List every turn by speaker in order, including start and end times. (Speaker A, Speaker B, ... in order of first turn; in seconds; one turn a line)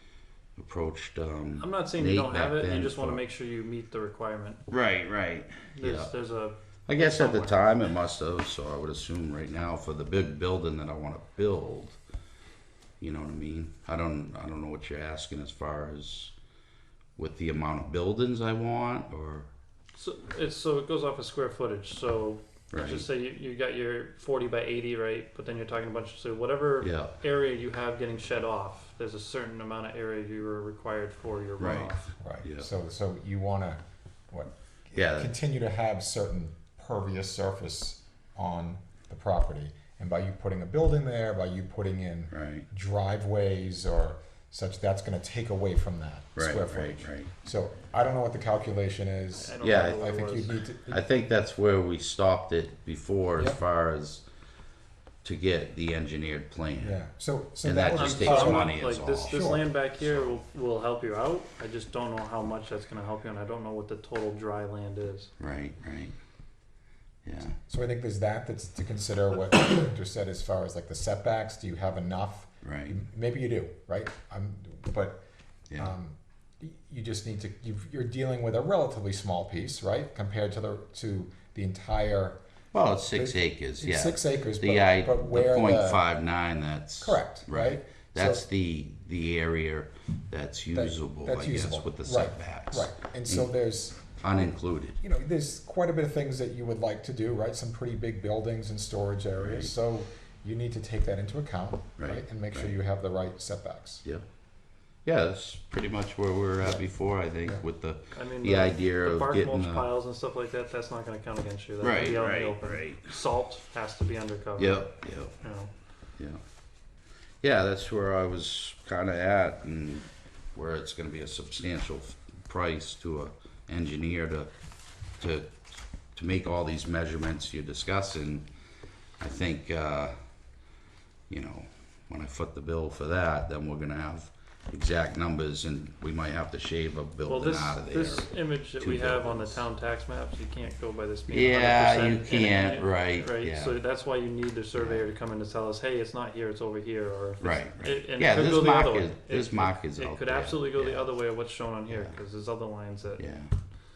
Speaker A: 0.6-3.2
Speaker B: 1.6-4.6
Speaker A: 4.7-6.1
Speaker B: 5.7-7.6
Speaker A: 6.9-12.0
Speaker A: 13.0-16.3
Speaker A: 17.2-19.5
Speaker B: 19.9-32.1
Speaker A: 22.7-23.1
Speaker A: 26.8-27.1
Speaker A: 31.6-32.7
Speaker C: 32.2-51.0
Speaker A: 34.9-35.3
Speaker A: 42.3-42.6
Speaker A: 46.4-47.3
Speaker B: 49.3-50.6
Speaker A: 49.6-50.1
Speaker A: 50.9-54.2
Speaker A: 55.2-57.0
Speaker C: 56.8-58.7
Speaker A: 57.6-59.4
Speaker B: 57.9-65.3
Speaker C: 59.2-59.6
Speaker A: 60.0-60.4
Speaker A: 65.4-66.1
Speaker A: 67.2-67.5
Speaker C: 67.7-75.2
Speaker A: 72.6-73.0
Speaker C: 75.8-82.4
Speaker A: 82.7-93.5
Speaker C: 83.1-86.0
Speaker C: 87.0-88.4
Speaker C: 90.7-94.2
Speaker A: 94.2-95.0
Speaker C: 95.0-104.0
Speaker A: 99.4-99.7
Speaker A: 102.0-102.7
Speaker A: 105.0-109.9
Speaker B: 108.1-115.7
Speaker A: 111.8-113.2
Speaker A: 114.6-115.3
Speaker A: 117.4-124.5
Speaker A: 125.2-125.5
Speaker A: 126.1-128.4
Speaker A: 129.2-130.1
Speaker A: 131.3-139.6
Speaker B: 137.2-153.2
Speaker A: 141.3-143.8
Speaker A: 144.8-145.0
Speaker A: 147.4-151.1
Speaker A: 151.9-152.1
Speaker A: 153.2-153.5